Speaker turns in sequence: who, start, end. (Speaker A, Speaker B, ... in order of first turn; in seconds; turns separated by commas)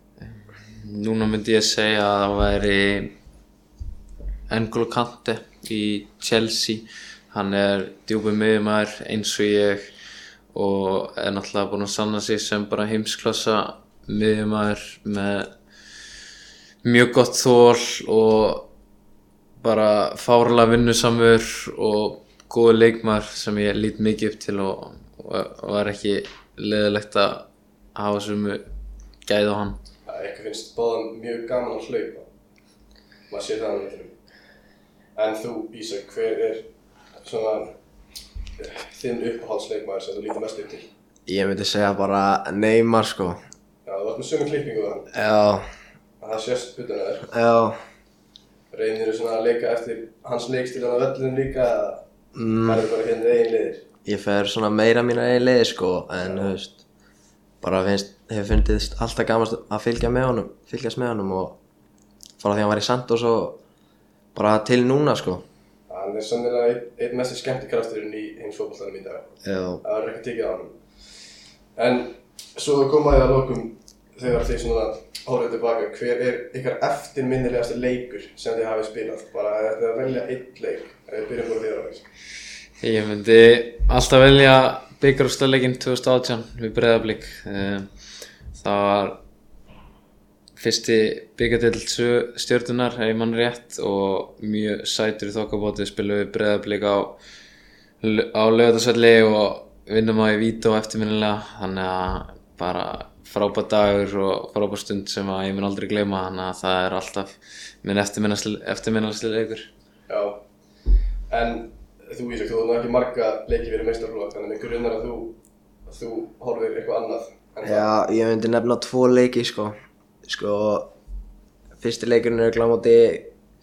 Speaker A: 0.2-3.1, Speaker A: 4.5-9.9, Speaker A: 10.5-15.5, Speaker A: 16.8-18.7, Speaker A: 19.6-28.6, Speaker A: 29.2-29.8, Speaker B: 30.1-32.2, Speaker B: 33.3-34.2, Speaker B: 35.1-37.8, Speaker B: 38.6-40.9, Speaker C: 41.2-43.4, Speaker B: 43.8-45.1, Speaker C: 45.1-45.6, Speaker B: 46.2-47.3, Speaker C: 47.3-47.8, Speaker B: 48.7-52.0, Speaker C: 52.4-52.9, Speaker B: 52.6-53.8, Speaker C: 54.0-56.8, Speaker B: 56.2-56.5, Speaker C: 57.6-61.6, Speaker C: 62.4-63.6, Speaker C: 64.3-65.4, Speaker B: 65.9-69.3, Speaker C: 69.4-69.8, Speaker B: 69.8-82.0, Speaker A: 82.8-89.2, Speaker A: 90.6-97.2, Speaker A: 98.0-109.7, Speaker B: 110.1-117.9, Speaker C: 117.6-120.9, Speaker C: 121.8-123.3